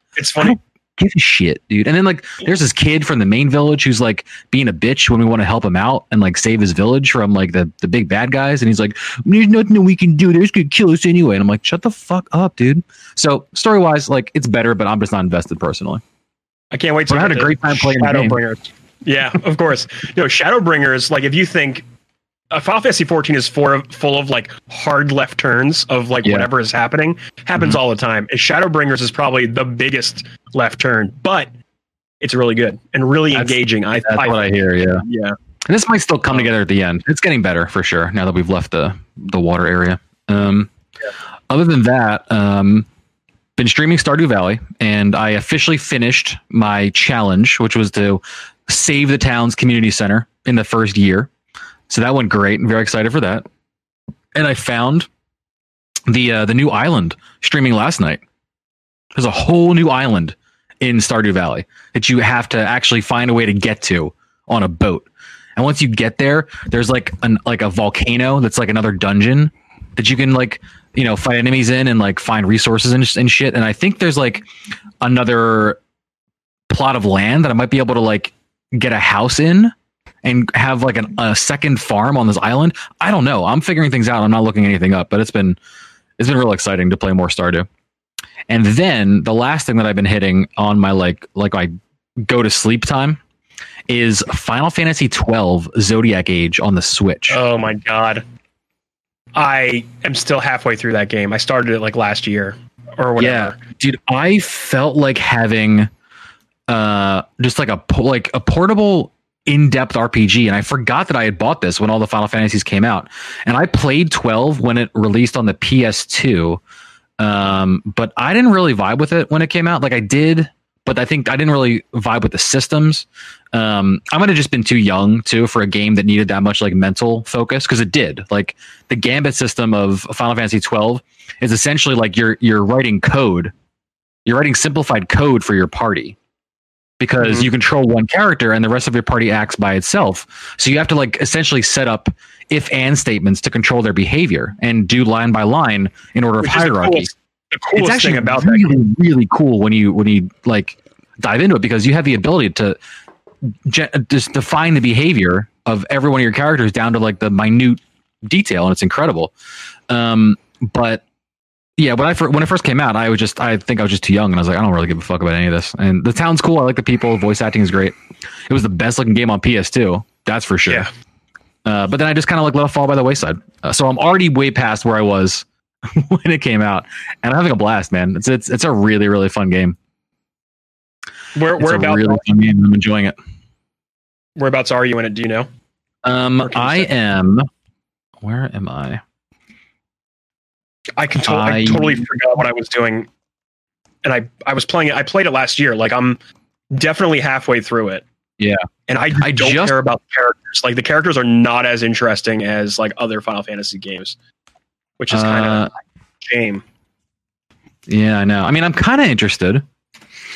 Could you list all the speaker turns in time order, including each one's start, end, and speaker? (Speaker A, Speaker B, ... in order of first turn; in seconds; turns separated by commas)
Speaker A: 0.2-0.6, Speaker B: 0.4-16.0, Speaker A: 16.7-21.9, Speaker B: 17.1-18.4, Speaker A: 22.5-31.5, Speaker B: 26.2-26.5, Speaker A: 32.2-35.4, Speaker B: 33.3-35.0, Speaker B: 35.7-40.7, Speaker B: 41.5-42.9, Speaker B: 43.6-51.3, Speaker B: 51.9-53.5, Speaker B: 54.4-55.1, Speaker B: 56.1-58.2, Speaker B: 59.1-74.5, Speaker B: 75.0-75.8, Speaker B: 76.7-85.6, Speaker B: 86.2-87.7, Speaker B: 88.5-91.7, Speaker B: 92.2-93.2, Speaker B: 93.9-97.4, Speaker A: 97.3-98.2, Speaker A: 99.3-103.6, Speaker B: 103.2-105.9, Speaker B: 106.7-116.6, Speaker B: 117.2-133.5, Speaker B: 134.3-136.2, Speaker B: 137.0-147.1, Speaker A: 137.2-137.5, Speaker A: 146.4-148.8, Speaker B: 147.8-152.8, Speaker B: 153.5-159.3, Speaker B: 159.9-161.0, Speaker B: 161.8-167.9, Speaker B: 168.5-170.9, Speaker B: 171.7-179.8, Speaker A: 181.3-182.2, Speaker B: 181.6-183.2, Speaker A: 184.4-185.5, Speaker B: 186.1-187.5, Speaker A: 186.4-186.9, Speaker B: 188.2-189.0, Speaker A: 191.0-193.1, Speaker B: 191.2-192.0, Speaker A: 194.0-196.2, Speaker A: 196.7-198.0, Speaker A: 198.9-204.2, Speaker B: 199.2-199.8, Speaker A: 205.0-205.7, Speaker B: 205.1-205.7, Speaker A: 206.2-206.6, Speaker B: 207.9-209.7